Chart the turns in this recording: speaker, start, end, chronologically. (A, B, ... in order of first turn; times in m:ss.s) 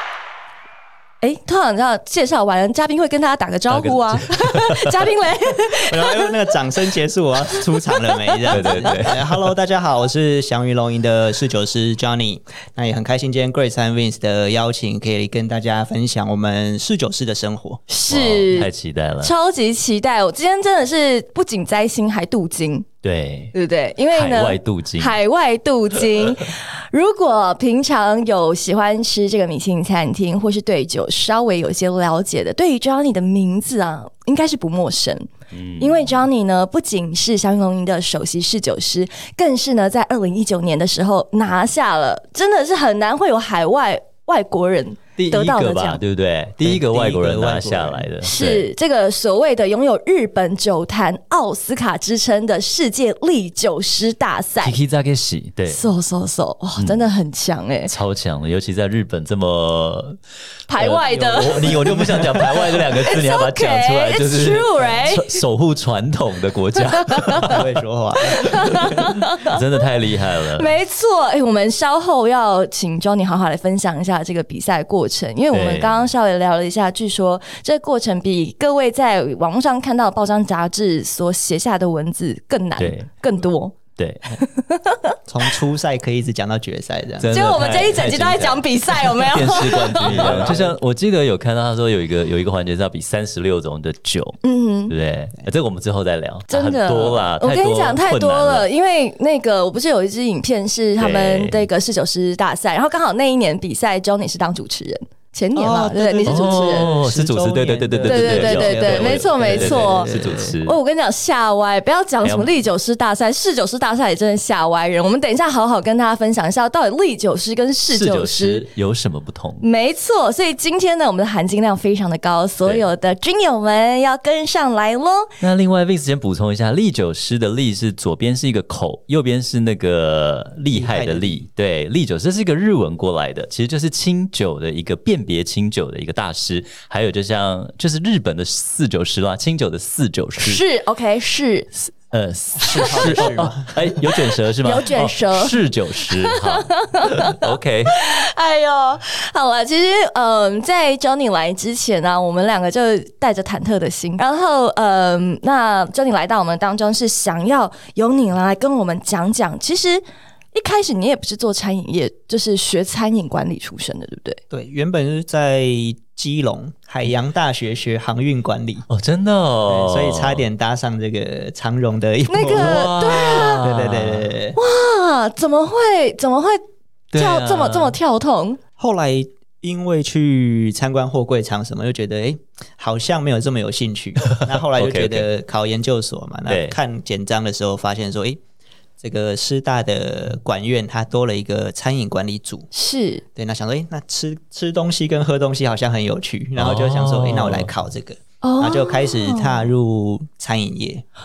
0:01.2-0:06.5 A
0:03.7-0:05.1 B
0:05.9-0:17.8 C
0:07.6-0:09.0 A
0:08.5-0:09.3 B
0:17.9-0:18.7 A
0:18.1-0:19.3 B
0:19.2-0:22.9 A
0:23.0-0:23.5 B
0:23.5-0:35.3 A
0:24.1-0:25.2 B
0:35.5-0:36.2 B
0:35.8-0:46.0 A
0:45.2-0:48.7 B
0:46.6-0:48.1 C
0:48.2-0:54.8 A
0:54.6-0:55.8 B
0:55.7-0:57.9 A
0:56.8-0:57.1 B
0:57.9-1:00.2 B
1:00.7-1:01.8 A
1:00.7-1:07.7 B
1:01.0-1:02.9 C
1:02.7-1:05.4 A
1:06.8-1:07.6 A
1:07.5-1:09.1 C
1:08.3-1:09.6 A
1:08.9-1:10.7 B
1:10.6-1:23.8 A
1:15.5-1:16.1 B
1:22.8-1:23.1 B
1:24.0-1:24.4 B
1:24.4-1:25.2 A
1:25.3-1:28.0 C
1:27.2-1:38.7 B
1:27.3-1:30.5 A
1:29.4-1:30.8 C
1:34.4-1:34.9 A
1:36.5-1:46.9 A
1:41.0-1:41.7 B
1:45.6-1:50.6 C
1:46.2-1:50.8 B
1:48.1-1:58.7 A
1:52.2-1:52.5 B
1:57.9-1:59.6 B
1:59.6-2:05.3 A
2:05.4-2:20.6 B
2:10.7-2:11.5 C
2:20.4-2:21.7 A
2:21.9-2:28.0 B
2:22.6-2:24.2 C
2:22.7-2:23.3 A
2:24.6-2:44.4 A
2:44.5-2:48.9 C
2:48.9-2:50.4 B
2:49.7-2:54.6 C
2:52.3-2:53.7 A
2:52.4-2:54.3 B
2:54.6-2:56.6 A
2:57.1-2:58.0 B
2:57.2-2:58.6 A
2:58.8-3:08.4 C
3:04.2-3:05.3 B
3:06.5-3:06.8 B
3:09.0-3:12.7 C
3:12.7-3:13.2 A
3:13.4-3:21.0 C
3:16.6-3:17.8 B
3:18.4-3:19.6 A